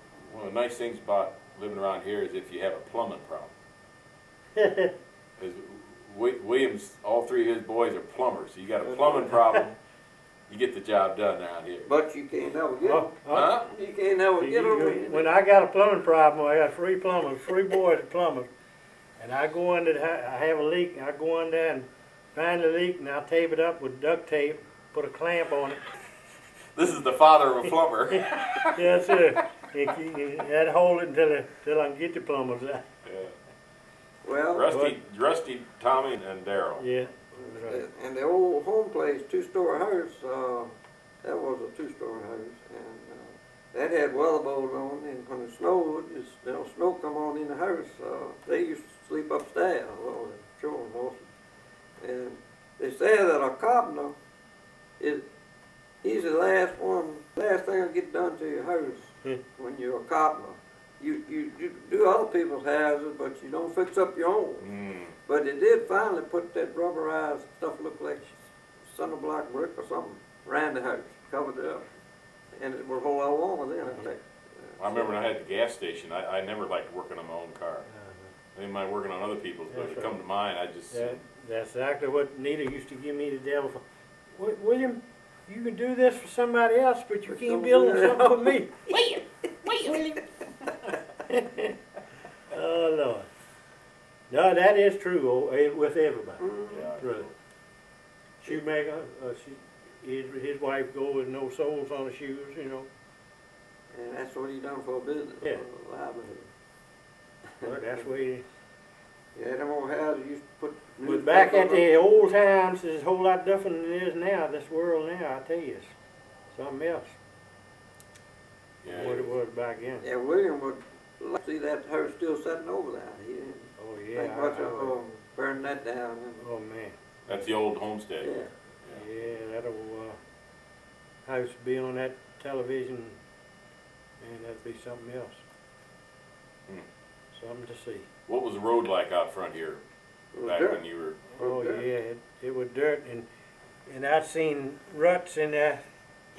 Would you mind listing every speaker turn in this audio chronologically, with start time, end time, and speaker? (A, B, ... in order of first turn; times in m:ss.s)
0:00.3-0:03.5 A
0:04.6-0:04.9 B
0:05.4-0:09.7 A
0:08.8-0:09.3 C
0:10.5-0:11.9 A
0:11.8-0:15.3 C
0:12.8-0:13.6 B
0:13.3-0:13.7 A
0:14.4-0:18.5 B
0:19.2-0:25.8 B
0:26.7-0:29.0 A
0:28.7-0:32.8 B
0:33.0-0:33.3 A
0:34.2-0:34.7 C
0:34.5-0:36.8 A
0:34.7-0:35.0 B
0:36.8-0:37.8 B
0:37.5-0:40.7 C
0:41.2-0:51.3 C
0:52.0-0:54.2 C
0:56.0-1:04.7 C
1:04.6-1:05.1 A
1:05.2-1:11.9 C
1:12.6-1:15.1 C
1:14.8-1:17.9 A
1:17.9-1:18.3 B
1:18.5-1:21.2 A
1:19.7-1:20.2 B
1:20.9-1:23.8 B
1:24.3-1:29.1 B
1:27.3-1:30.0 C
1:29.6-1:30.3 B
1:30.8-1:31.7 B
1:32.5-1:33.2 B
1:34.3-1:37.3 B
1:36.4-1:36.9 C
1:36.7-1:37.3 A
1:38.4-1:42.9 B
1:43.9-1:46.5 C
1:47.6-1:48.4 B
1:49.4-1:52.2 C
1:51.0-1:55.9 B
1:56.5-1:57.2 B
1:58.8-1:59.3 A
1:58.9-2:00.1 B
2:00.0-2:06.4 C
2:03.8-2:05.0 B
2:06.4-2:07.0 B
2:07.3-2:08.3 A
2:08.2-2:08.5 C
2:08.9-2:10.2 B
2:11.2-2:13.2 B
2:14.2-2:15.4 B
2:17.3-2:18.0 B
2:18.3-2:19.8 A
2:20.3-2:20.8 C
2:20.4-2:21.2 A
2:21.4-2:21.8 C
2:21.4-2:23.3 B
2:23.8-2:25.8 B